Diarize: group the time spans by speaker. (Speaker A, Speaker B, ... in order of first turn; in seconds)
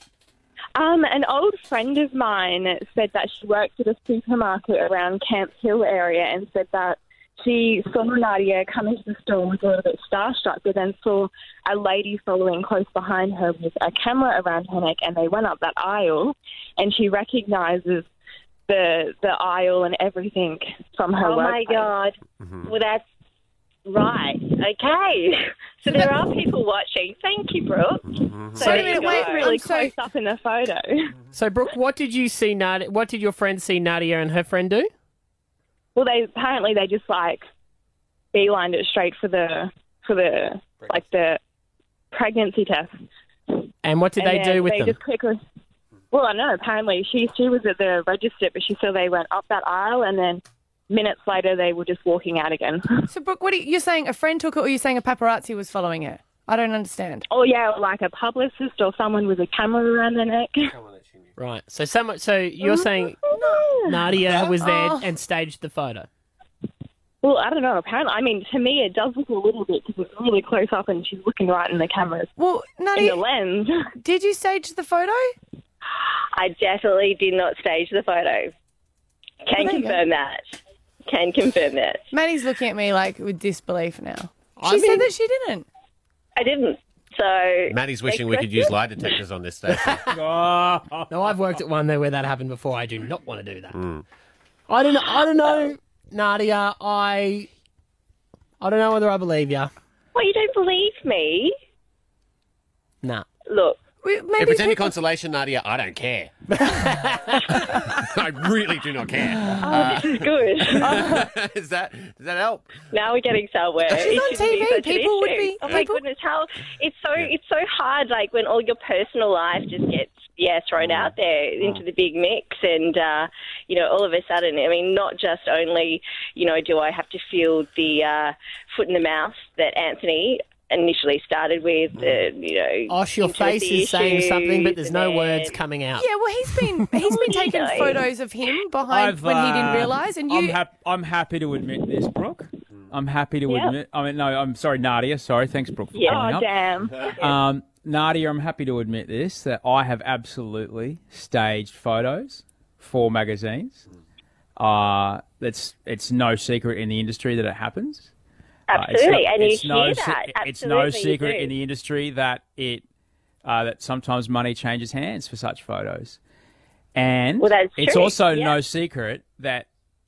Speaker A: 0.8-18.1, 18.7-21.9, 28.6-31.1, 35.9-37.5, 38.3-41.4, 42.1-42.9, 44.2-45.4, 46.1-53.1, 57.3-60.7, 67.2-72.3, 72.9-73.8, 146.0-147.1
Speaker B: 21.2-23.0, 23.9-29.5, 76.3-78.5, 79.4-82.1, 86.3-89.0, 100.1-101.5, 103.5-103.8, 109.6-111.1, 112.9-135.6, 137.1-138.0, 143.5-143.7, 145.9-146.4, 147.0-147.3, 158.7-161.5, 167.4-168.6
Speaker C: 22.4-22.7, 28.1-28.6, 60.8-61.3, 87.7-90.0, 93.7-94.0, 104.4-106.3, 107.7-112.7, 120.8-121.8
Speaker D: 28.6-29.9, 53.1-57.2, 64.3-65.1, 72.4-73.2, 74.0-75.3, 79.5-80.0, 82.1-85.7, 104.0-104.9, 110.8-111.2, 113.9-116.0, 136.0-140.6
Speaker E: 31.3-34.9, 43.8-45.0, 61.4-63.2, 63.8-66.1, 84.6-85.1, 89.8-90.2, 91.1-93.8, 94.7-97.5, 98.6-99.7, 106.5-107.4, 132.9-136.8
Speaker F: 90.1-91.2, 138.9-146.5, 147.2-153.8, 154.6-158.1, 158.7-162.8, 163.4-166.2, 166.9-169.7